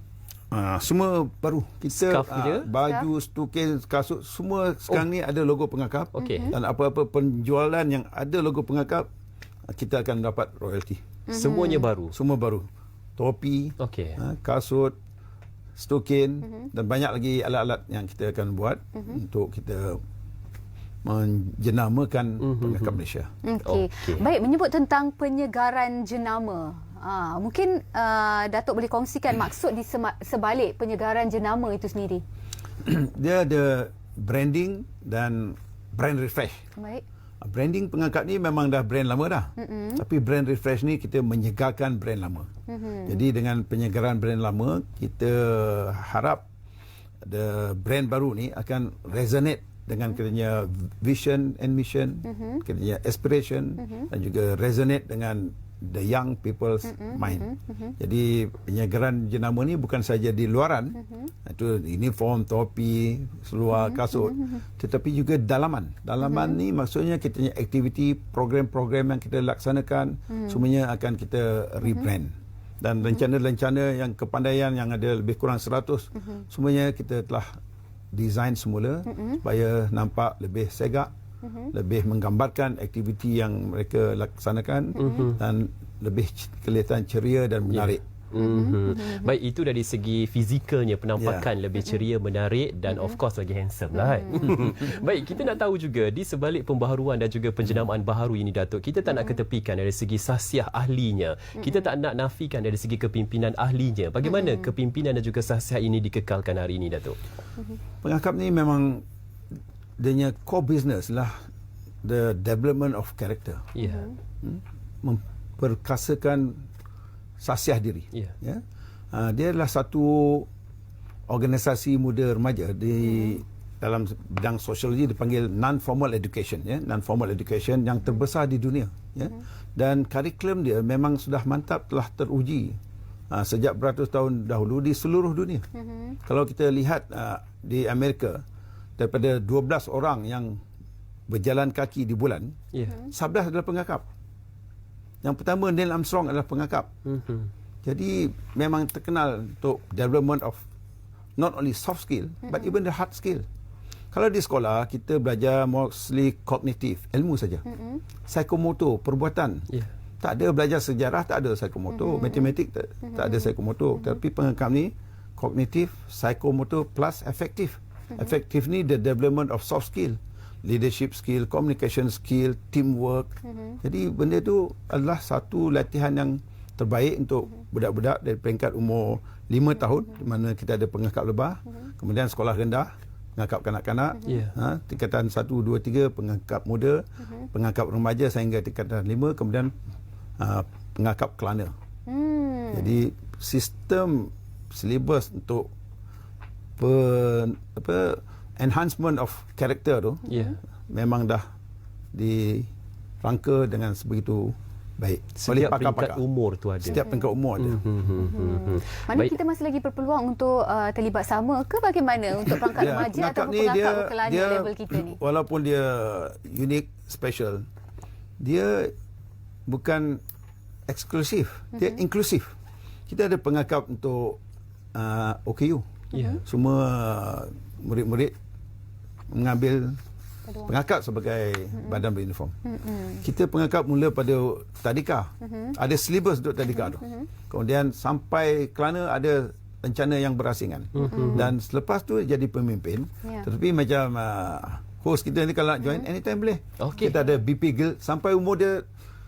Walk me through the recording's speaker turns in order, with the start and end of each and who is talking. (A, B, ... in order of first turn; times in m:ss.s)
0:00.5-0:09.1 A
0:01.9-0:02.7 B
0:06.1-0:06.6 B
0:06.2-0:06.6 C
0:09.7-0:11.0 A
0:11.3-0:11.8 C
0:11.3-0:12.2 B
0:12.1-0:14.9 A
0:13.8-0:14.2 B
0:15.8-0:20.0 A
0:21.0-0:23.3 A
0:22.4-0:23.0 B
0:23.4-0:32.2 C
0:23.6-0:24.2 B
0:32.8-0:36.6 A
0:36.8-0:37.0 C
0:37.4-0:42.5 A
0:39.6-0:40.0 C
0:42.7-0:43.3 C
0:43.0-0:46.4 A
0:47.2-1:17.5 A
0:52.2-0:52.6 C
0:53.8-0:54.1 C
0:56.8-0:58.0 C
1:01.0-1:01.3 C
1:03.7-1:04.5 C
1:06.2-1:06.6 C
1:10.3-1:10.6 C
1:16.2-1:16.4 C
1:18.1-1:21.1 A
1:19.1-1:19.4 C
1:21.4-1:21.7 C
1:21.7-1:28.0 A
1:25.0-1:25.3 C
1:25.0-1:25.4 B
1:27.7-1:47.2 B
1:28.4-1:29.3 C
1:31.2-1:31.5 A
1:32.9-1:33.2 C
1:33.9-1:34.9 C
1:39.1-1:39.4 C
1:41.6-1:41.8 C
1:44.3-1:44.5 C
1:48.0-1:49.0 A
1:50.0-1:51.4 A
1:52.0-1:53.7 A
1:53.7-1:54.1 B
1:53.8-1:54.1 C
1:54.4-1:56.6 A
1:57.4-2:00.5 A
2:01.3-2:12.8 A
2:13.3-2:15.6 A
2:15.7-2:16.2 C
2:16.2-2:18.4 A
2:19.0-2:20.6 A
2:21.3-2:24.0 A
2:22.7-2:23.0 B
2:25.2-2:26.9 A
2:27.0-2:27.5 B
2:27.8-2:30.6 A
2:31.4-2:33.4 A
2:34.1-2:37.6 A
2:37.7-2:38.0 C
2:38.2-2:39.7 A
2:40.2-2:53.3 A
2:41.9-2:42.5 C
2:43.1-2:43.5 C
2:53.5-2:53.8 C
2:53.8-3:09.7 A
3:04.2-3:04.5 B
3:10.4-3:11.7 A
3:12.1-3:13.0 C
3:12.7-3:15.7 A
3:16.8-3:20.3 A
3:20.3-3:20.6 B
3:20.9-3:21.4 A
3:22.1-3:22.7 A
3:23.2-3:26.2 A
3:25.4-3:27.1 B
3:26.8-3:27.8 A
3:26.9-3:27.3 C
3:27.6-3:29.3 B
3:28.2-3:35.2 C
3:32.4-3:37.6 A
3:38.4-3:38.9 A
3:39.7-3:40.2 A
3:40.9-3:42.5 A
3:41.7-3:42.0 C
3:43.1-3:44.4 A
3:44.9-3:45.8 A
3:46.1-3:46.4 C
3:46.1-3:46.4 B
3:46.4-3:48.3 A
3:49.3-3:50.0 A
3:50.5-3:50.7 C
3:50.6-3:52.6 A
3:51.7-3:52.0 C
3:52.6-3:53.2 C
3:53.2-4:08.8 A
3:55.4-3:55.8 C
3:56.7-3:57.3 C
4:00.9-4:01.5 B
4:01.0-4:01.5 C
4:05.8-4:06.0 C
4:06.8-4:07.1 B